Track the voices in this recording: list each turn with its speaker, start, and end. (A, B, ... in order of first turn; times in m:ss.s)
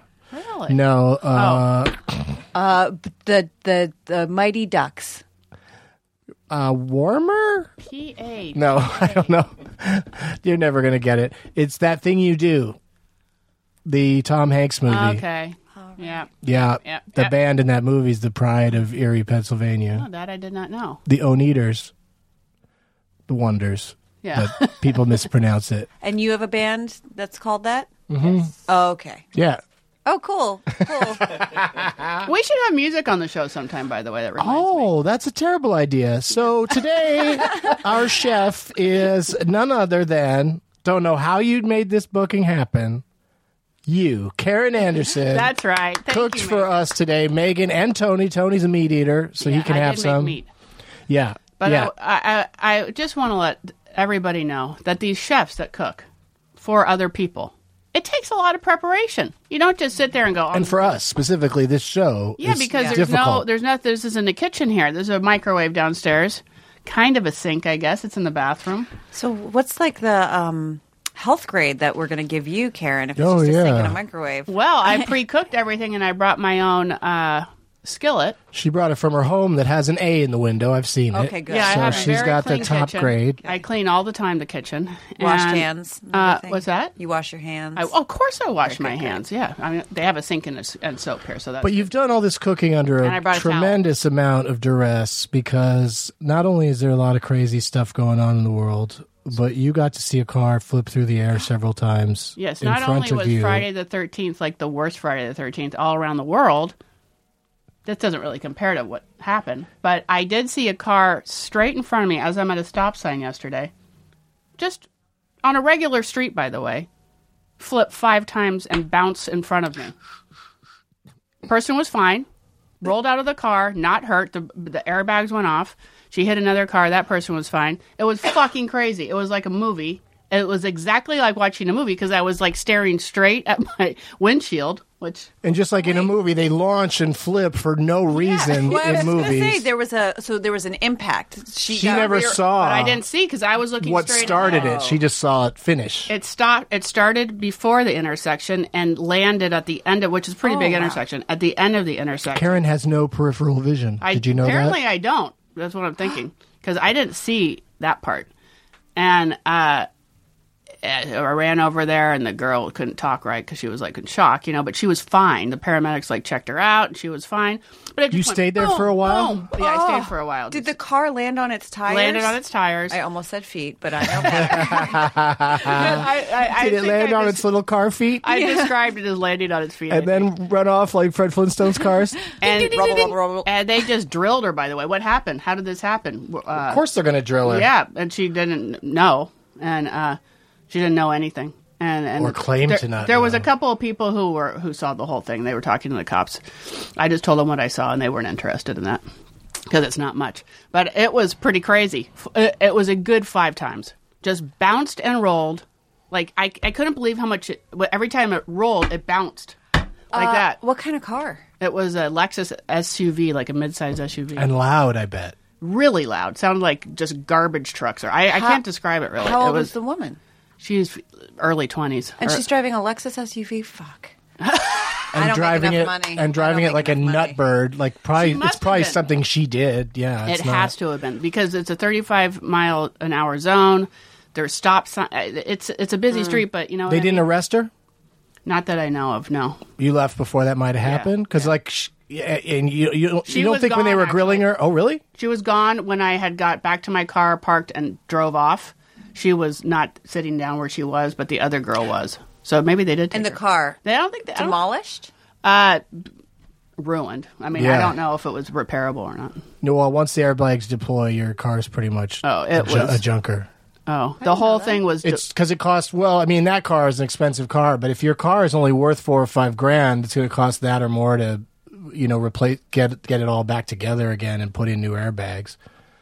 0:00.3-0:00.8 A
0:00.7-0:02.4 B
0:01.3-0:01.7 A
0:02.5-0:05.2 C
0:06.5-0:07.7 B
0:07.8-0:09.4 A
0:08.5-0:12.8 B
0:13.8-0:15.2 B
0:14.9-0:17.3 A
0:15.8-0:16.2 C
0:16.4-0:20.0 B
0:19.9-0:21.0 A
0:21.0-0:21.9 B
0:23.3-0:25.9 B
0:24.2-0:25.1 A
0:26.0-0:27.9 C
0:28.1-0:28.5 B
0:28.7-0:29.2 C
0:29.3-0:29.6 B
0:30.0-0:31.2 C
0:30.8-0:32.3 B
0:32.2-0:34.9 A
0:34.4-0:43.0 B
0:43.8-0:45.5 B
0:45.2-0:46.7 A
0:46.1-0:50.4 B
0:49.4-0:50.5 A
0:51.1-0:51.9 B
0:51.6-0:56.0 A
0:56.6-1:00.9 A
1:00.5-1:03.4 B
1:02.4-1:08.9 A
1:02.7-1:03.0 C
1:09.1-1:15.1 C
1:13.2-1:14.0 B
1:14.5-1:18.4 A
1:18.5-1:23.4 B
1:21.1-1:22.8 C
1:21.5-1:26.9 A
1:25.2-1:27.9 C
1:27.8-1:31.9 A
1:28.6-1:29.2 C
1:31.6-1:43.7 B
1:33.0-1:33.8 A
1:33.1-1:33.7 C
1:42.4-1:46.7 A
1:47.8-1:53.7 A
1:54.6-1:54.9 A
1:55.4-1:56.9 A
1:57.6-1:59.9 A
2:01.5-2:02.2 A
2:02.8-2:15.3 A
2:15.4-2:19.6 B
2:18.2-2:22.3 C
2:18.4-2:19.1 A
2:21.7-2:23.0 B
2:21.8-2:24.8 A
2:23.8-2:26.1 B
2:24.2-2:25.0 C
2:26.1-2:32.6 A
2:30.4-2:31.0 C
2:32.3-2:34.8 B
2:34.0-2:38.3 A
2:39.0-2:39.9 A
2:40.8-2:50.7 A
2:48.1-2:49.5 B
2:49.6-2:52.4 C
2:51.8-2:53.0 A
2:52.9-2:55.0 C
2:54.2-2:58.2 B
2:55.6-2:57.5 A
2:58.2-3:00.3 A
2:58.3-2:58.7 C
2:59.9-3:02.2 B
3:02.3-3:03.5 C
3:02.4-3:06.8 A
3:06.6-3:07.7 B
3:07.4-3:10.2 A
3:10.7-3:19.0 A
3:12.2-3:13.5 B
3:19.7-3:29.6 A
3:30.1-3:30.6 A
3:30.1-3:31.4 C
3:31.6-3:34.6 A
3:34.4-3:35.4 B
3:35.6-3:39.7 A
3:38.3-3:38.6 C
3:39.2-3:40.2 C
3:40.6-3:42.4 A
3:42.2-3:44.1 C
3:44.4-3:45.1 A
3:45.1-3:50.7 B
3:45.1-3:47.4 C
3:48.2-3:49.1 A
3:50.2-3:57.2 A
3:56.1-3:56.4 C
3:56.9-3:57.7 B
3:58.4-3:59.7 A
3:59.8-4:05.0 B
4:00.8-4:01.5 A
4:03.2-4:04.5 A
4:05.2-4:14.6 A
4:13.1-4:13.8 C
4:14.3-4:15.1 C
4:15.4-4:16.1 A
4:16.8-4:19.4 A
4:17.6-4:18.0 B
4:19.6-4:23.5 B
4:22.2-4:23.0 A
4:23.9-4:25.2 A
4:24.2-4:24.8 C
4:25.0-4:35.6 B